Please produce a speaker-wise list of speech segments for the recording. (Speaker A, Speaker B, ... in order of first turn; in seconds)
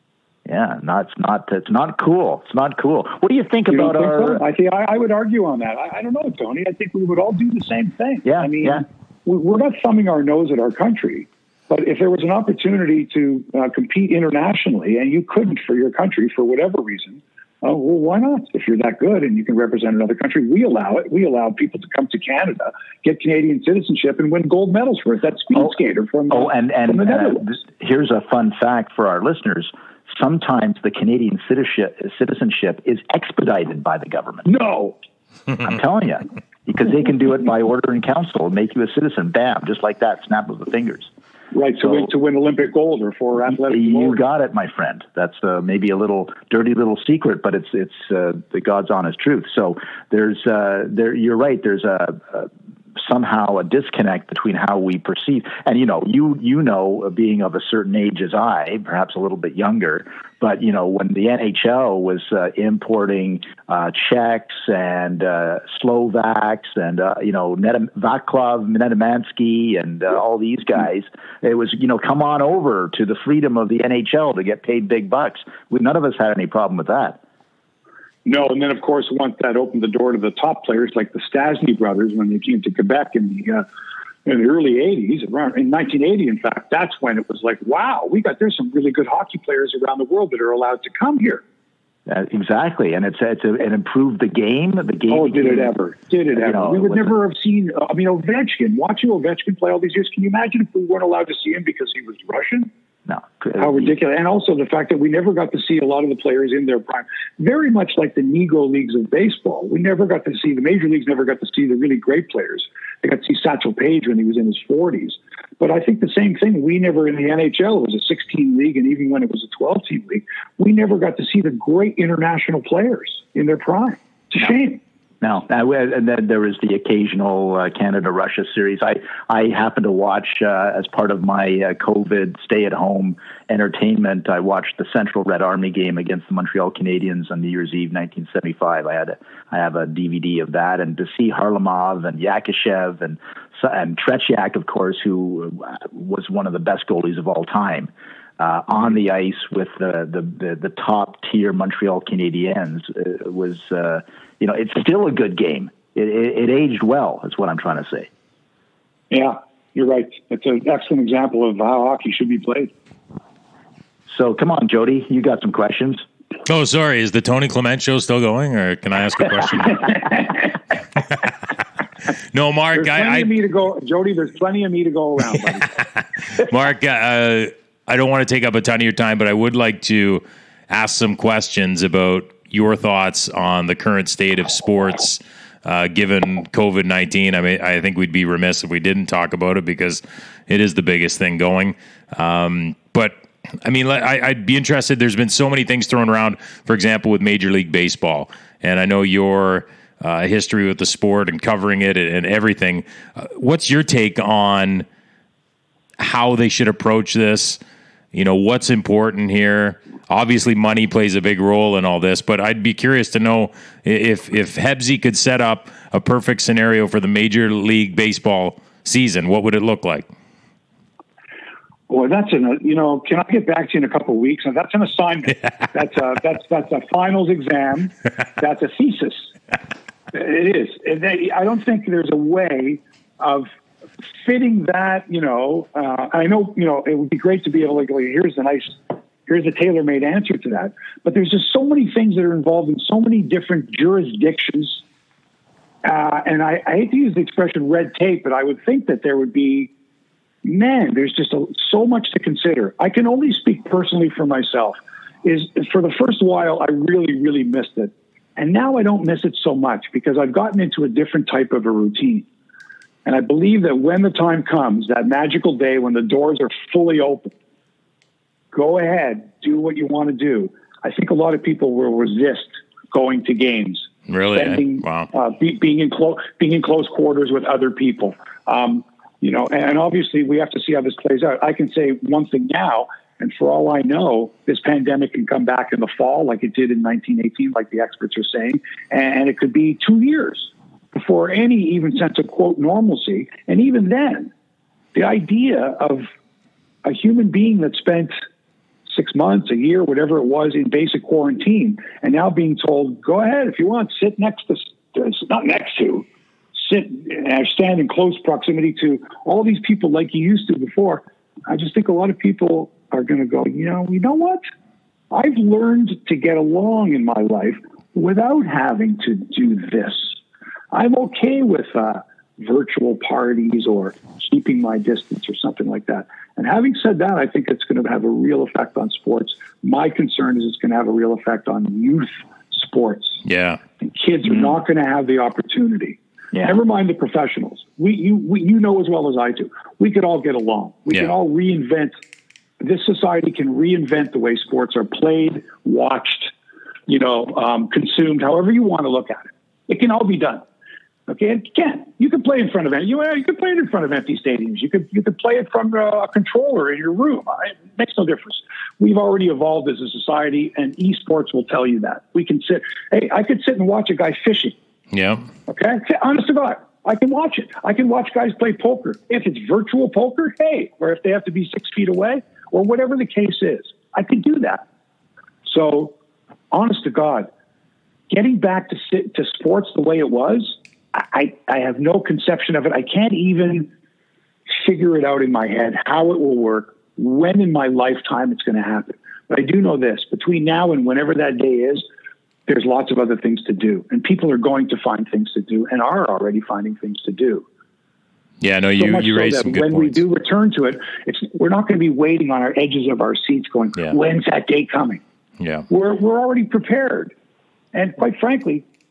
Speaker A: 0.5-4.4, 8.2-8.8, 26.3-34.5, 35.6-41.1, 43.7-77.2, 92.1-95.7, 96.3-97.2, 103.1-103.9, 125.2-158.1, 164.1-166.1
Speaker B: 3.7-27.6, 34.5-35.0, 41.5-44.2, 78.2-83.7, 84.3-91.4, 95.1-102.7, 103.6-124.8, 159.1-162.7, 170.0-170.2, 172.8-175.7, 221.9-229.3, 230.1-233.5, 234.1-244.8, 245.8-249.7, 250.4-262.3, 263.1-267.3, 268.5-294.3, 294.9-296.1, 296.8-298.1, 298.9-314.4, 315.1-320.1, 320.7-333.2, 333.8-341.9, 342.6-346.3, 346.9-350.4, 351.1-364.6, 365.5-374.6, 375.4-375.9, 376.5-377.3, 378.1-383.7, 384.5-391.8, 392.5-397.4, 398.8-405.0, 405.7-407.1, 407.7-408.6
Speaker C: 166.5-170.0, 172.3-173.3, 175.7-204.9, 206.0-207.6, 208.1-220.1, 274.1-275.1, 333.2-333.6, 364.9-365.3, 398.4-400.0, 405.4-405.7